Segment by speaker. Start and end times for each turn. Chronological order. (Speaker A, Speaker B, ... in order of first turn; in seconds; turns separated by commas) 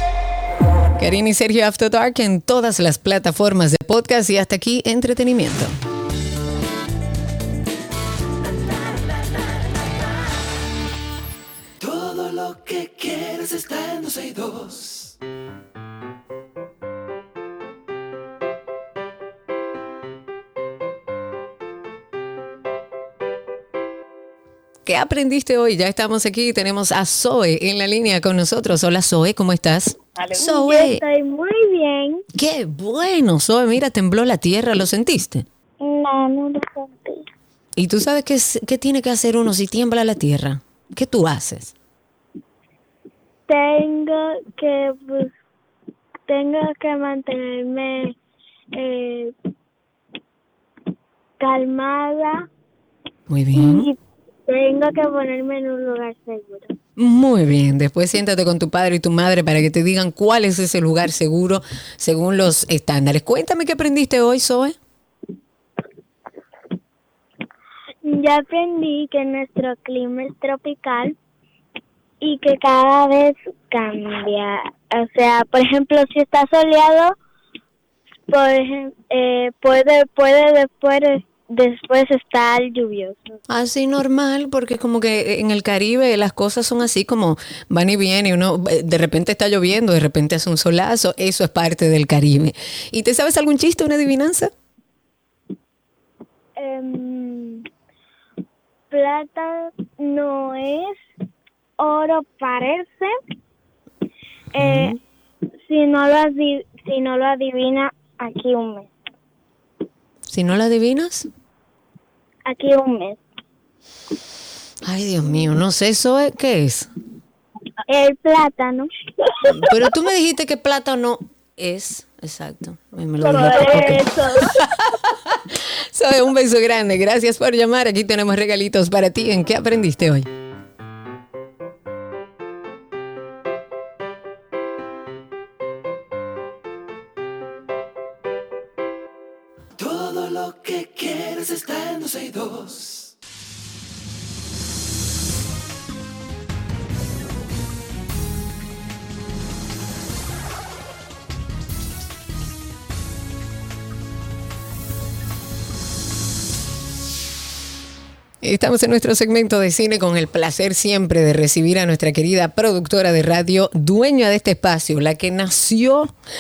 Speaker A: 1.0-5.8, Speaker B: 11.8-15.1, Speaker A: 24.9-31.0, Speaker C: 30.2-32.2, Speaker A: 32.4-35.5, Speaker C: 35.8-37.2, Speaker A: 37.8-41.7, Speaker C: 43.5-45.3, Speaker C: 46.3-48.1, Speaker C: 48.8-49.3, Speaker C: 51.4-52.5, Speaker A: 53.3-53.9, Speaker C: 53.5-54.0, Speaker C: 54.5-56.7, Speaker A: 57.0-64.8, Speaker C: 68.1-71.1, Speaker C: 72.2-77.1, Speaker C: 78.3-83.2, Speaker A: 83.5-94.5, Speaker C: 96.6-97.6, Speaker C: 98.9-101.0, Speaker C: 101.8-103.1, Speaker C: 104.5-105.0, Speaker A: 104.6-105.0, Speaker C: 105.7-108.9, Speaker A: 110.3-111.3, Speaker C: 112.5-113.2, Speaker A: 114.8-116.9, Speaker C: 117.9-118.9, Speaker A: 119.5-130.3, Speaker C: 123.2-124.5, Speaker B: 139.8-143.1, Speaker A: 158.4-166.1